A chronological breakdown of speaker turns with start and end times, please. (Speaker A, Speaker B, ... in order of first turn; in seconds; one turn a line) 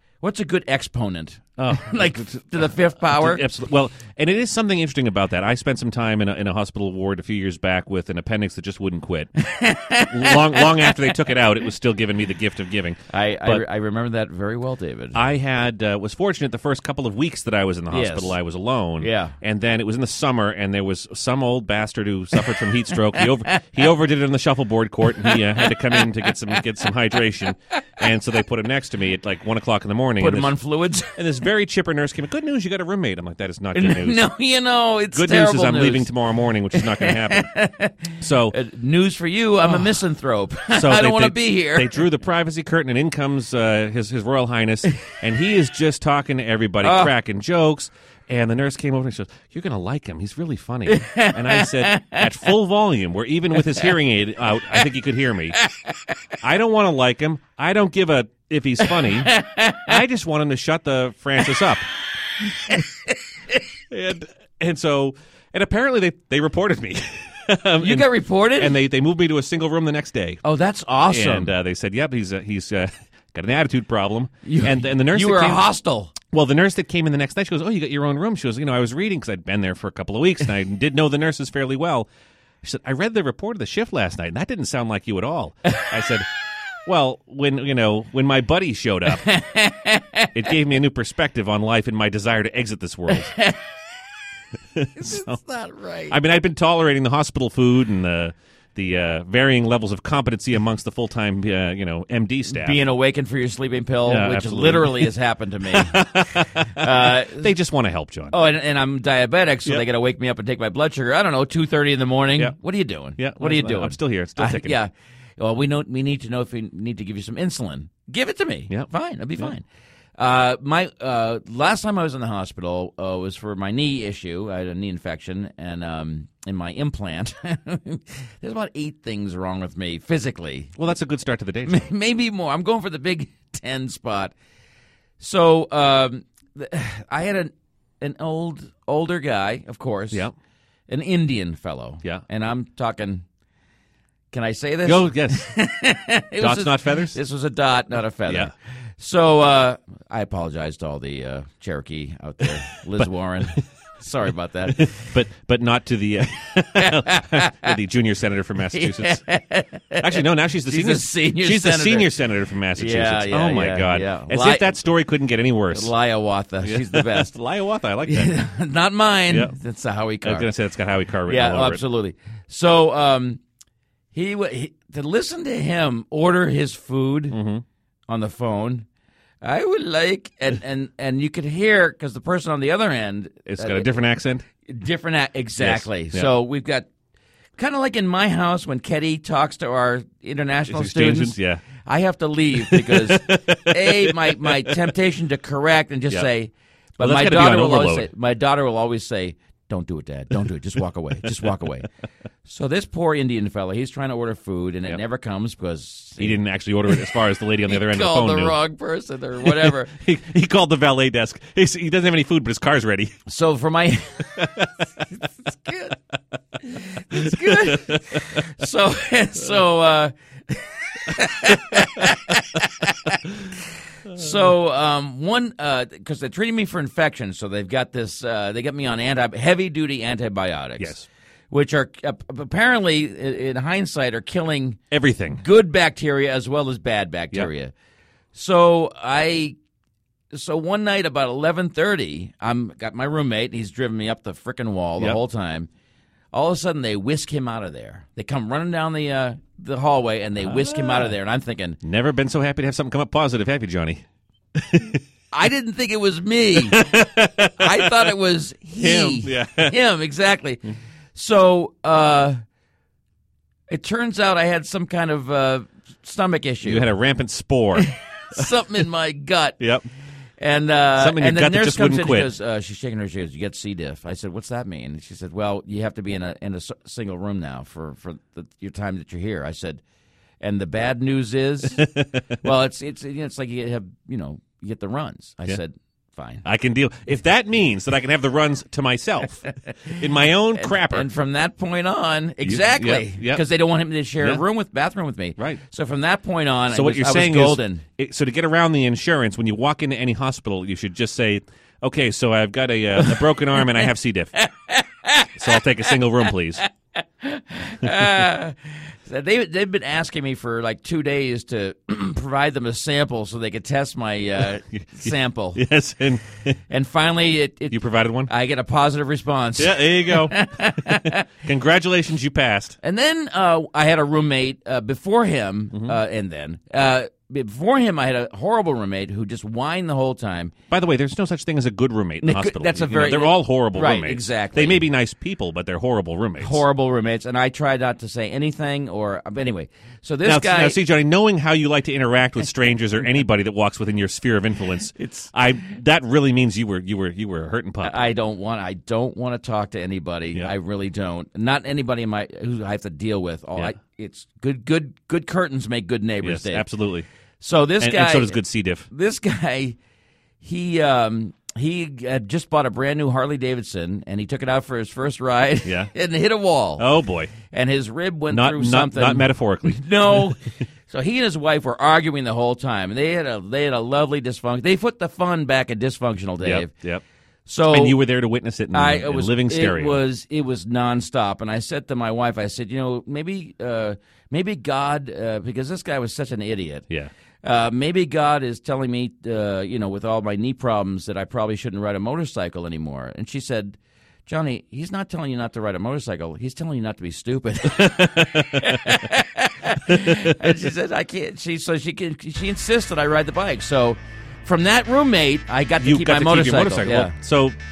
Speaker A: 0.2-3.5
Speaker B: 1.6-9.3
Speaker A: 9.4-11.2
Speaker B: 10.0-13.6
Speaker A: 13.1-15.2
Speaker B: 15.2-30.5
Speaker A: 17.9-18.4
Speaker A: 19.0-19.4
Speaker A: 25.2-26.1
Speaker A: 30.2-31.2
Speaker B: 31.2-34.2
Speaker A: 33.7-36.1
Speaker B: 35.1-37.5
Speaker A: 36.7-42.0
Speaker B: 38.2-38.5
Speaker B: 39.7-40.0
Speaker B: 40.7-55.6
Speaker A: 46.8-47.1
Speaker A: 50.9-52.3
Speaker A: 53.6-53.9
Speaker B: 56.4-61.9
Speaker A: 58.9-60.0
Speaker A: 62.7-63.1
Speaker B: 63.9-70.4
Speaker A: 67.8-68.8
Speaker A: 70.4-71.5
Speaker B: 71.1-75.7
Speaker A: 74.4-76.1
Speaker B: 76.3-82.1
Speaker B: 82.6-86.3
Speaker B: 86.9-89.3
Speaker A: 89.1-90.3
Speaker B: 90.3-93.4
Speaker A: 93.1-93.5
Speaker B: 94.8-95.3
Speaker A: 95.0-96.2
Speaker B: 96.1-102.8
Speaker A: 102.5-106.1
Speaker B: 104.1-105.1
Speaker B: 105.7-108.4
Speaker A: 106.6-107.5
Speaker A: 108.3-119.7
Speaker B: 113.2-114.8
Speaker A: 120.2-130.7
Speaker B: 130.8-131.9
Speaker A: 131.7-134.3
Speaker A: 135.2-140.3
Speaker A: 140.9-143.2
Speaker A: 144.3-154.9
Speaker B: 144.9-145.5
Speaker B: 146.4-147.2
Speaker B: 154.7-159.2
Speaker A: 156.8-157.8
Speaker A: 158.7-162.1
Speaker B: 160.0-165.9
Speaker A: 162.7-164.8
Speaker A: 165.7-167.4
Speaker B: 166.6-168.4
Speaker A: 168.1-170.5
Speaker B: 170.2-171.8
Speaker A: 171.2-173.4
Speaker A: 174.1-177.4
Speaker B: 177.3-177.6
Speaker A: 178.1-178.9
Speaker A: 179.4-183.9
Speaker B: 183.5-184.4
Speaker A: 184.7-186.9
Speaker B: 185.6-186.3
Speaker A: 187.6-201.9
Speaker B: 190.7-191.6
Speaker B: 192.6-194.9
Speaker B: 197.0-198.1
Speaker A: 202.4-207.0
Speaker B: 206.2-208.6
Speaker A: 207.7-209.9
Speaker B: 209.4-213.2
Speaker A: 213.3-214.5
Speaker B: 214.4-214.7
Speaker A: 215.5-215.9
Speaker A: 216.7-223.6
Speaker B: 217.1-218.0
Speaker A: 224.1-231.0
Speaker B: 230.8-231.1
Speaker A: 231.5-234.8
Speaker B: 234.9-235.4
Speaker A: 235.4-237.7
Speaker A: 238.3-239.6
Speaker A: 240.3-245.7
Speaker A: 246.3-251.8
Speaker B: 250.4-251.1
Speaker B: 251.8-254.0
Speaker B: 254.6-255.0
Speaker A: 255.3-260.6
Speaker B: 256.6-258.1
Speaker B: 258.8-259.7
Speaker A: 261.1-262.4
Speaker A: 263.7-266.9
Speaker B: 266.6-267.9
Speaker A: 267.8-269.6
Speaker A: 270.4-279.8
Speaker B: 271.0-272.3
Speaker A: 280.4-281.9
Speaker B: 282.0-282.2
Speaker A: 282.4-286.4
Speaker B: 286.4-291.1
Speaker A: 289.7-297.9
Speaker B: 292.4-293.4
Speaker B: 296.7-304.4
Speaker A: 303.1-303.9
Speaker A: 304.4-305.6
Speaker B: 305.4-306.6
Speaker A: 307.2-315.6
Speaker B: 314.7-316.6
Speaker A: 316.7-321.3
Speaker B: 317.7-318.3
Speaker B: 319.6-322.8
Speaker A: 322.8-330.5
Speaker B: 330.7-336.6
Speaker A: 332.2-334.9
Speaker A: 336.4-340.8
Speaker B: 340.3-348.1
Speaker A: 345.0-345.3
Speaker A: 347.8-356.6
Speaker B: 356.2-357.1
Speaker A: 357.4-359.8
Speaker B: 357.8-358.9
Speaker A: 360.4-366.9
Speaker B: 365.6-365.9
Speaker B: 366.8-367.3
Speaker A: 367.4-376.7
Speaker B: 368.3-370.4
Speaker B: 376.4-377.0
Speaker A: 377.5-378.0
Speaker B: 377.7-380.0
Speaker A: 378.7-386.9
Speaker A: 387.4-407.1
Speaker B: 397.7-399.1
Speaker B: 399.9-400.6
Speaker B: 405.8-407.6